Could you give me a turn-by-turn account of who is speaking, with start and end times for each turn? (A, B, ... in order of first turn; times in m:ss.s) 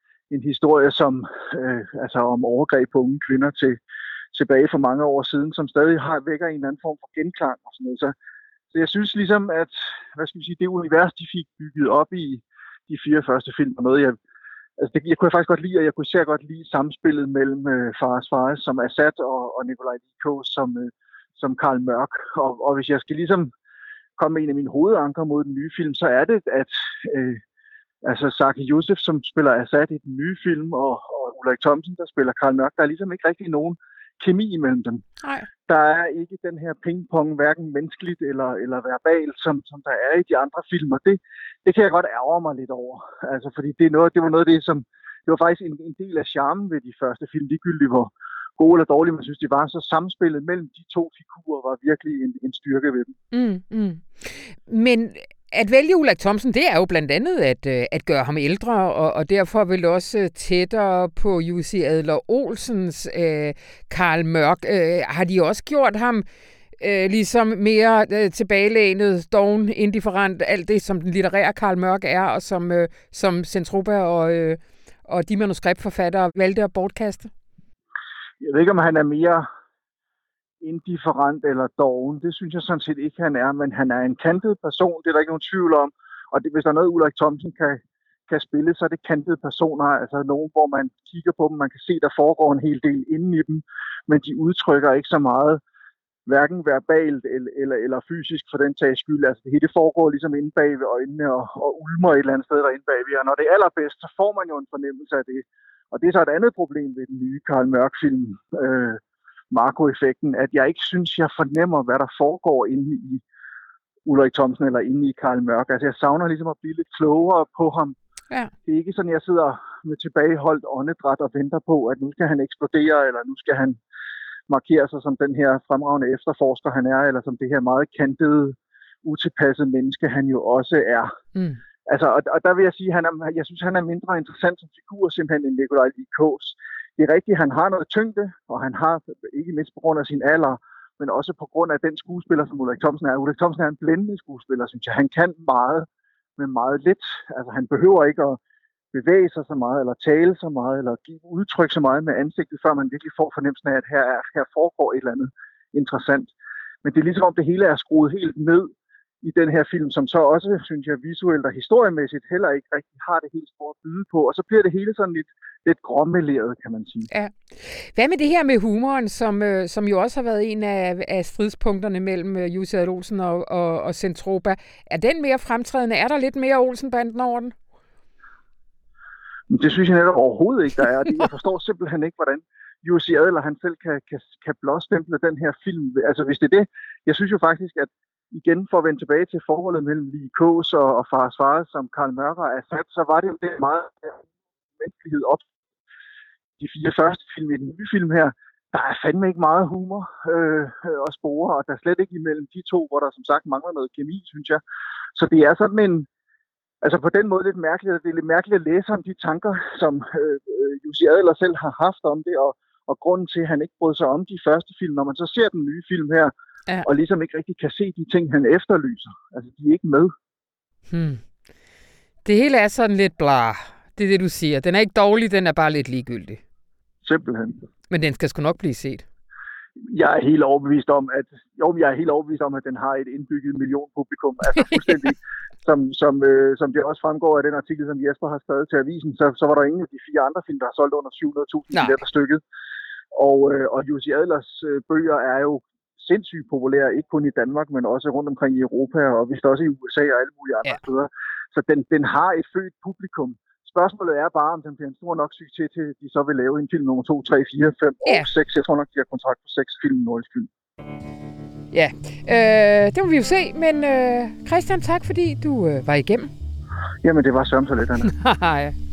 0:00.3-0:03.8 A
0:04.3-0:08.1 A
0:08.7-0:14.2 A
0:14.8-0:23.5 A
0:24.2-0:27.4 A
0:28.0-0:35.0 A
0:35.2-0:35.5 B
0:35.7-0:53.2 A
0:53.3-1:06.2 B
1:06.8-1:17.3 B
1:18.4-1:19.5 A
1:20.6-1:35.6 A
1:36.3-1:49.0 A
1:49.5-1:53.2 A
1:54.1-1:58.0 A
1:58.7-2:03.8 A
2:04.5-2:11.1 A
2:11.9-2:28.4 A
2:28.9-2:36.3 A
2:36.8-2:38.7 A
2:39.2-2:47.1 A
2:47.1-2:57.6 B
2:59.5-3:14.2 A
3:14.8-3:15.4 A
3:16.6-3:24.6 A
3:25.2-3:26.1 A
3:26.8-3:36.3 A
3:36.8-3:40.1 A
3:40.9-3:41.2 B
3:42.2-3:46.4 B
3:47.0-3:47.6 A
3:47.9-3:49.0 B
3:49.9-4:02.4 A
3:54.6-3:54.9 B
4:01.7-4:02.0 B
4:03.1-4:20.5 A
4:21.7-4:26.3 B
4:27.0-4:28.1 A
4:28.1-4:28.8 B